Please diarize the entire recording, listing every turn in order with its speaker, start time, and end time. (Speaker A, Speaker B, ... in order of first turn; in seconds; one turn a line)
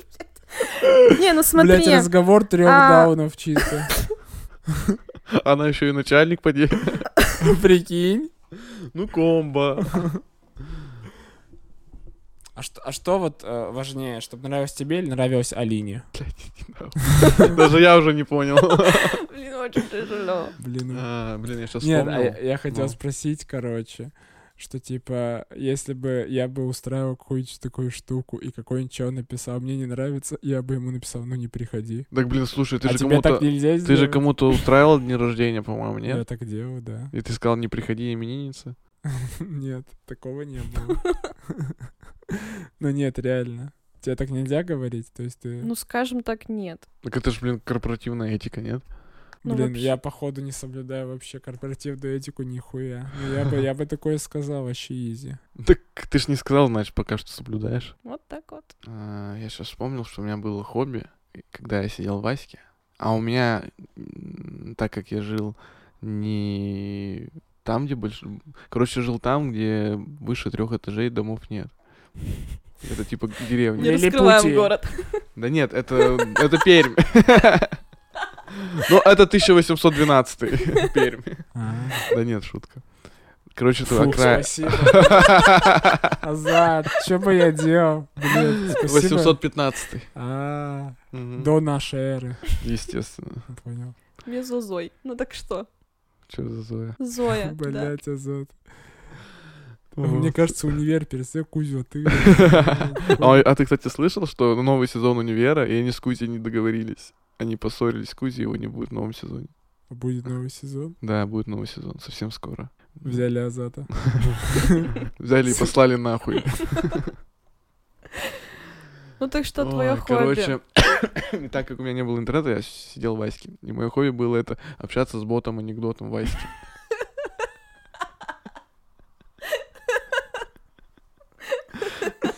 Speaker A: 0.6-2.1
Speaker B: 1.5-4.0
Speaker A: 2.6-3.7
Speaker C: 5.3-7.1
Speaker B: 7.4-8.3
Speaker C: 8.6-10.1
Speaker B: 12.6-16.1
Speaker C: 16.1-19.2
Speaker B: 17.2-17.5
Speaker A: 18.8-20.6
Speaker B: 20.6-21.1
Speaker C: 20.9-23.0
Speaker B: 21.8-32.1
Speaker C: 32.1-36.3
Speaker B: 32.8-34.6
Speaker B: 36.1-37.1
Speaker C: 37.1-38.8
Speaker B: 39.1-41.7
Speaker B: 42.3-45.7
Speaker A: 45.6-46.9
Speaker C: 47.0-49.0
Speaker B: 49.4-55.4
Speaker A: 49.4-49.9
Speaker C: 55.5-58.0
Speaker A: 58.0-58.7
Speaker C: 58.8-72.1
Speaker C: 72.8-74.0
Speaker B: 73.8-74.7
Speaker A: 73.8-75.3
Speaker C: 75.3-77.8
Speaker A: 76.0-76.4
Speaker C: 78.7-86.0
Speaker B: 81.5-82.0
Speaker B: 83.8-85.5
Speaker B: 86.2-89.5
Speaker C: 88.8-90.1
Speaker B: 90.1-92.5
Speaker C: 91.1-91.5
Speaker C: 92.6-93.5
Speaker B: 93.5-94.0
Speaker A: 94.2-95.7
Speaker C: 96.3-97.0
Speaker A: 97.0-97.9
Speaker B: 97.3-98.7
Speaker C: 99.9-100.7
Speaker B: 100.0-103.4
Speaker C: 102.1-109.5
Speaker B: 109.9-111.0
Speaker C: 111.0-113.3
Speaker B: 113.0-114.9
Speaker C: 113.9-117.1
Speaker A: 119.2-120.5
Speaker C: 119.6-126.6